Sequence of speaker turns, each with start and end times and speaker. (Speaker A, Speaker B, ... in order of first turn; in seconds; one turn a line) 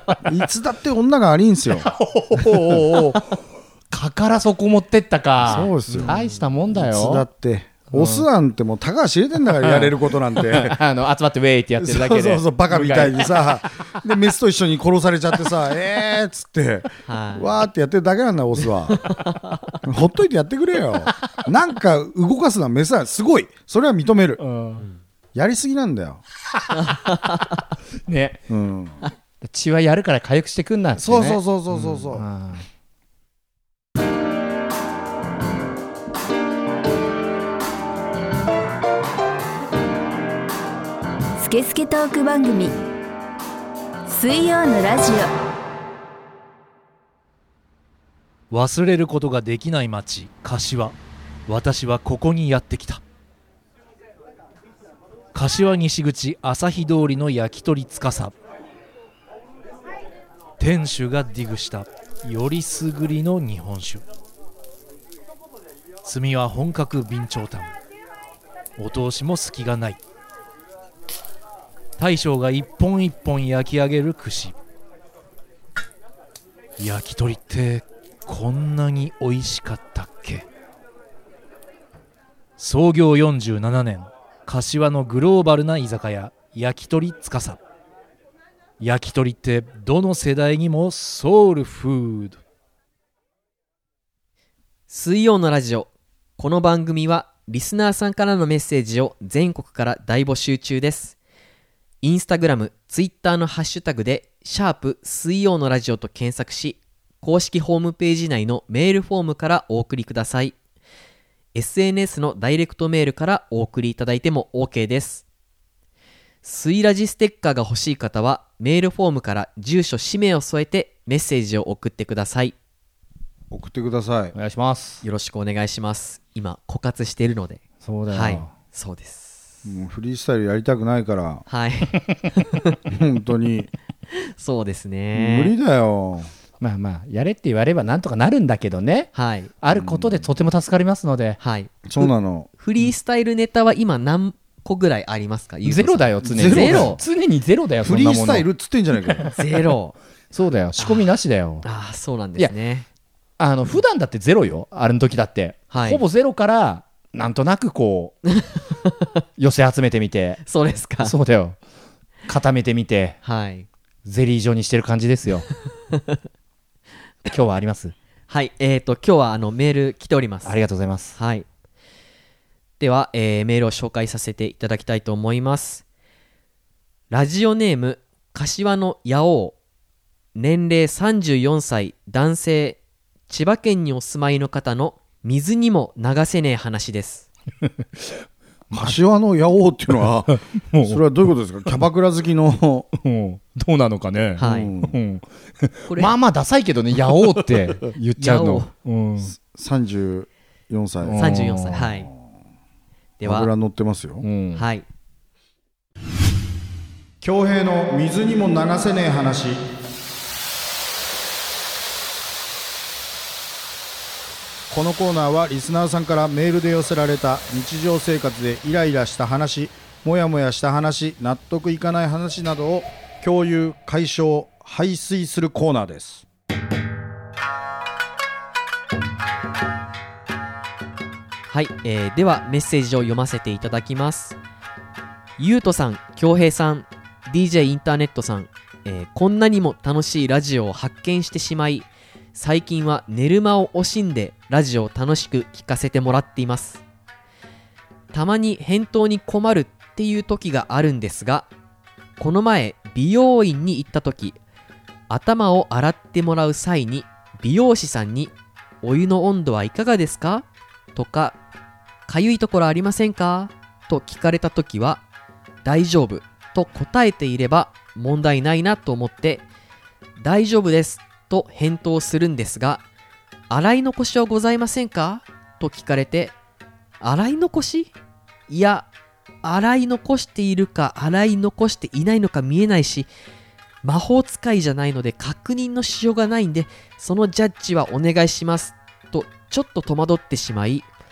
Speaker A: 0.2-1.9
Speaker B: 1.8-7.2
Speaker A: 5.4-6.2
Speaker C: 5.9-6.5
Speaker A: 6.7-10.8
Speaker B: 7.9-8.3
Speaker B: 9.4-13.6
Speaker A: 11.8-19.1
Speaker C: 17.0-17.5
Speaker C: 19.0-19.8
Speaker A: 19.8-24.4
Speaker B: 24.4-24.8
Speaker A: 25.3-26.2
Speaker B: 26.6-27.0
Speaker C: 26.7-27.6
Speaker B: 28.1-28.5
Speaker A: 28.5-29.0
Speaker B: 29.4-32.6
Speaker A: 31.0-32.2
Speaker C: 31.8-32.0
Speaker D: 41.4-42.8
Speaker D: 44.1-45.3
Speaker E: 48.5-51.0
Speaker E: 51.5-53.0
Speaker E: 55.3-58.3
Speaker E: 60.6-64.0
Speaker E: 66.0-67.7
Speaker E: 68.8-70.0
Speaker E: 72.0-74.5
Speaker E: 76.8-80.5
Speaker E: 82.6-87.6
Speaker E: 88.8-92.4
Speaker C: 94.9-101.2
Speaker C: 102.0-110.5
Speaker C: 111.5-115.2
Speaker C: 116.4-122.5
Speaker A: 123.5-124.3
Speaker B: 124.3-125.0
Speaker C: 125.0-129.4
Speaker B: 127.8-128.5
Speaker A: 129.6-131.4
Speaker C: 131.5-132.8
Speaker A: 132.9-133.7
Speaker C: 134.1-135.6
Speaker A: 135.1-136.3
Speaker B: 136.6-141.4
Speaker C: 139.1-139.5
Speaker A: 139.7-140.3
Speaker C: 141.4-147.0
Speaker A: 141.8-142.5
Speaker B: 145.6-148.5
Speaker A: 146.2-147.0
Speaker A: 147.8-149.3
Speaker C: 149.3-149.9
Speaker B: 150.3-151.6
Speaker C: 150.8-152.8
Speaker B: 153.4-158.2
Speaker C: 155.7-156.0
Speaker C: 158.3-159.1
Speaker B: 159.4-160.4
Speaker C: 160.4-161.1
Speaker B: 161.0-161.6
Speaker B: 162.2-163.2
Speaker C: 163.2-163.7
Speaker B: 164.0-165.4
Speaker C: 165.9-166.2
Speaker B: 167.2-167.9
Speaker C: 168.3-170.6
Speaker B: 170.4-171.2
Speaker C: 171.2-171.4
Speaker C: 172.8-175.8
Speaker C: 177.1-179.6
Speaker C: 180.3-187.3
Speaker B: 187.6-188.1
Speaker B: 188.7-189.0
Speaker A: 188.7-192.9
Speaker B: 189.9-191.0
Speaker B: 192.9-199.3
Speaker C: 194.4-194.7
Speaker A: 194.4-194.9
Speaker C: 195.9-196.1
Speaker C: 198.2-198.7
Speaker A: 199.2-201.4
Speaker B: 201.0-201.9
Speaker C: 201.2-202.1
Speaker C: 203.2-203.5
Speaker A: 203.2-204.2
Speaker B: 204.2-204.6
Speaker C: 204.5-204.8
Speaker A: 207.2-209.6
Speaker A: 214.7-226.2
Speaker C: 231.5-234.4
Speaker C: 235.4-246.8
Speaker C: 248.1-251.5
Speaker C: 252.2-254.4
Speaker C: 255.1-261.4
Speaker C: 262.1-265.0
Speaker C: 265.6-269.4
Speaker C: 270.2-272.8
Speaker C: 273.5-276.3
Speaker C: 277.0-277.9
Speaker C: 278.5-278.9
Speaker C: 279.4-283.1
Speaker C: 283.8-290.9